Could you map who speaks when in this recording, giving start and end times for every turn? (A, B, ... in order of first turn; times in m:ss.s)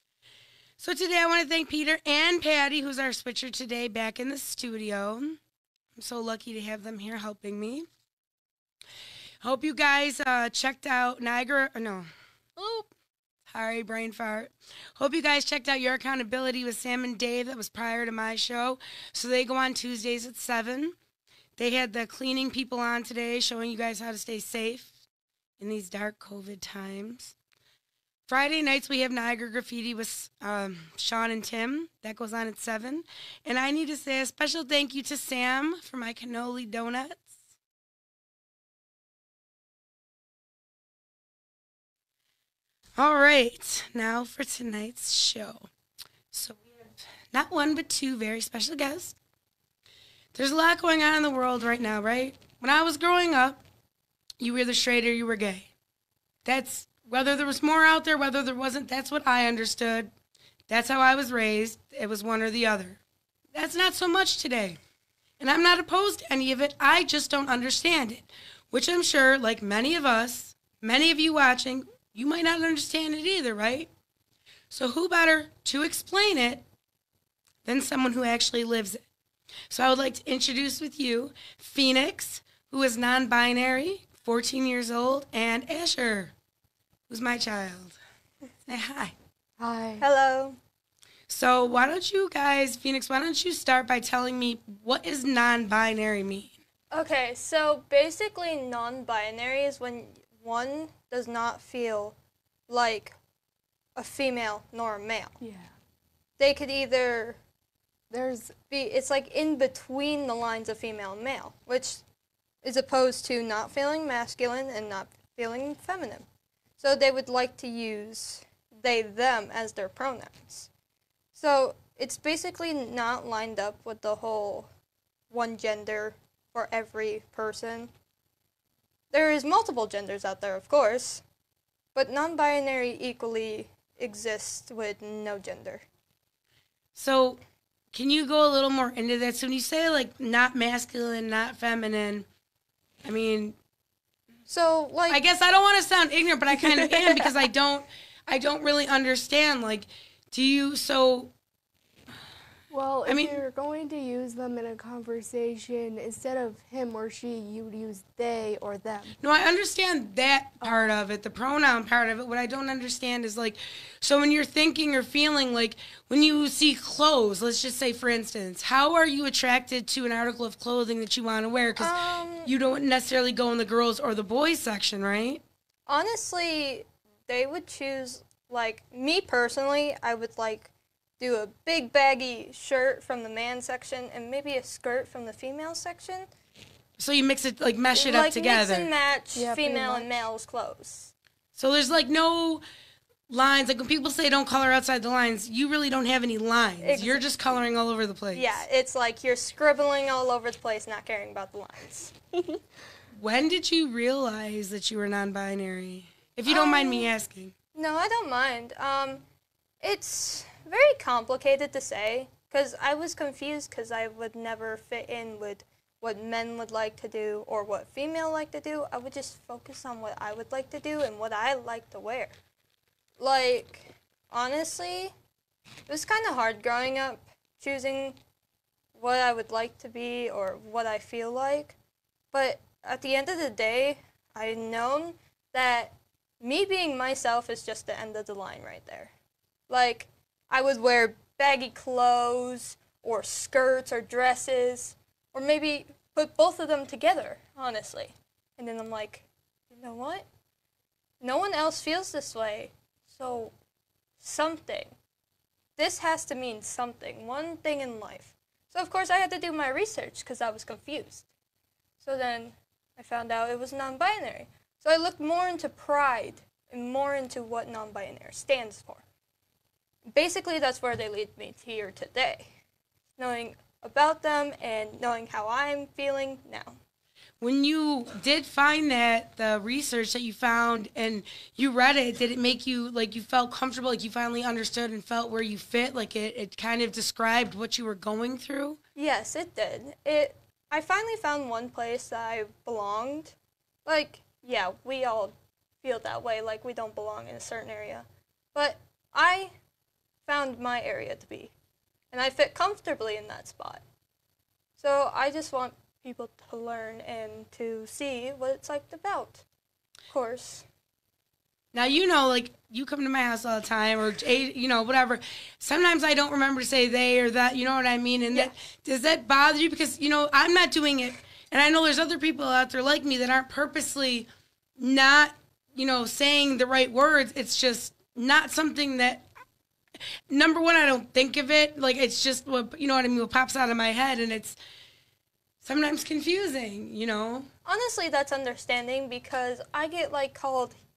0:00.8-0:05.4 A
0:06.0-0:07.9 A
0:09.4-0:12.1 A
0:12.6-0:12.8 B
0:13.5-0:21.0 A
0:21.6-0:24.9 A
0:25.6-0:27.3 A
0:28.3-0:37.3 A
0:43.0-0:45.7 A
0:46.3-0:46.6 A
0:47.3-0:49.2 A
0:50.4-0:53.6 A
0:54.4-0:55.7 A
0:56.4-1:00.1 A
1:00.7-1:03.0 A
1:03.6-1:04.8 A
1:05.4-1:13.9 A
1:14.7-1:16.6 A
1:17.6-1:19.0 A
1:19.7-1:26.3 A
1:27.1-1:28.0 A
1:28.7-1:29.1 A
1:29.6-1:30.0 C
1:30.0-1:30.6 B
1:31.3-1:36.5 A
1:36.9-1:42.2 B
1:42.7-1:43.2 B
1:44.0-1:45.4 B
1:45.4-1:45.7 C
1:46.4-1:47.4 B
1:48.1-1:48.6 C
1:48.7-1:52.0 B
1:52.6-1:56.2 B
1:56.8-2:00.7 B
2:01.3-2:04.7 B
2:05.3-2:07.9 B
2:09.1-2:11.2 B
2:12.0-2:15.8 B
2:17.0-2:17.4 A
2:17.9-2:22.2 A
2:23.0-2:23.6 A
2:24.5-2:25.2 B
2:25.1-2:31.3 A
2:26.7-2:27.2 B
2:32.7-2:39.1 C
2:33.1-2:33.4 A
2:39.2-2:51.9 A
2:40.6-2:40.9 C
2:51.8-2:52.5 B
2:52.4-2:55.4 A
2:55.9-3:06.3 B
3:07.0-3:08.9 A
3:07.9-3:11.1 B
3:09.4-3:10.2 C
3:11.6-3:12.6 A
3:13.3-3:18.6 A
3:16.8-3:17.4 B
3:18.3-3:22.1 B
3:23.1-3:27.5 A
3:26.5-3:27.1 B
3:27.8-3:29.2 B
3:29.8-3:42.3 B
3:43.2-3:45.1 B
3:45.9-3:48.2 B
3:49.0-3:51.8 B
3:52.3-3:59.1 B
3:59.7-4:10.2 B
4:11.2-4:13.5 B
4:14.2-4:14.9 B
4:15.8-4:21.2 B
4:22.0-4:29.0 B
4:30.1-4:32.5 B
4:33.2-4:36.8 B
4:37.4-4:48.8 A
4:49.0-4:59.5 B
5:00.2-5:01.5 B
5:02.1-5:03.8 B
5:04.8-5:09.4 B
5:10.1-5:10.6 B
5:11.7-5:24.3 A
5:24.8-5:29.2 A
5:30.3-5:34.6 A
5:35.6-5:37.5 A
5:37.7-5:40.8 B